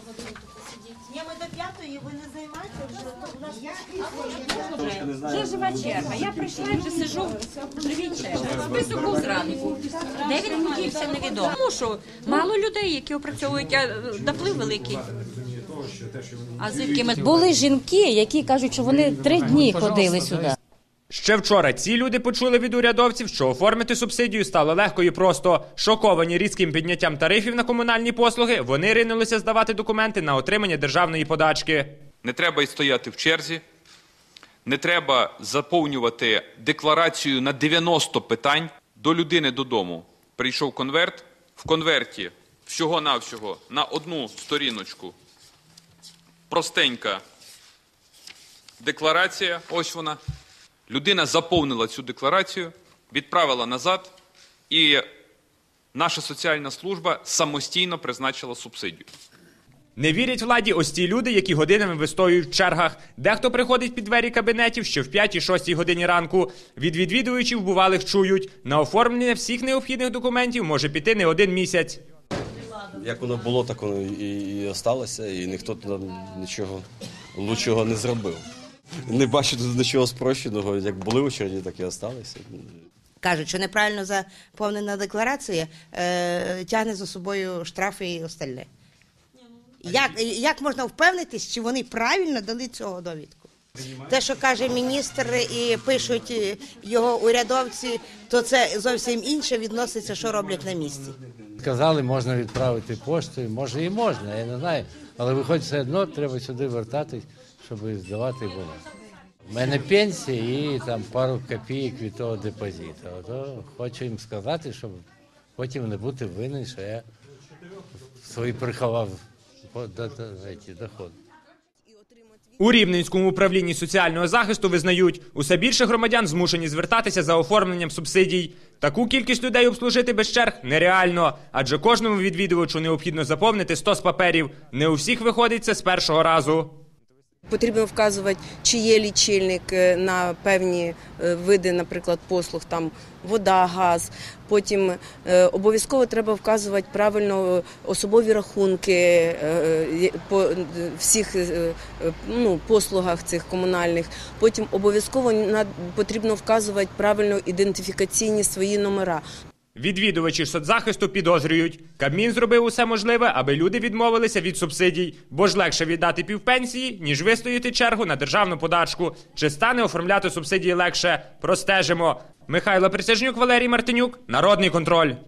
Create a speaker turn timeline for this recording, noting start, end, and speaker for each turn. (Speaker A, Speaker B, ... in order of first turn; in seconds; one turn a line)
Speaker A: 1.0-5.1
Speaker B: 5.1-15.3
Speaker B: 16.6-17.1
Speaker C: 17.1-20.6
Speaker D: 21.1-31.9
Speaker E: 32.2-33.6
Speaker E: 34.6-45.1
Speaker E: 46.5-47.2
Speaker E: 48.8-50.2
Speaker E: 50.9-54.1
Speaker E: 54.7-55.0
Speaker E: 55.9-59.1
Speaker D: 60.0-72.0
Speaker F: 73.0-78.4
Speaker F: 79.1-82.7
Speaker A: 83.2-88.7
Speaker A: 89.8-93.5
Speaker A: 94.0-101.2
Speaker G: 101.6-108.8
Speaker G: 109.5-115.0
Speaker G: 115.5-117.0
Speaker G: 118.2-119.2
Speaker G: 119.7-121.1
Speaker H: 121.9-122.4
Speaker D: 122.6-136.8
Speaker H: 137.5-159.2
Speaker D: 159.8-175.2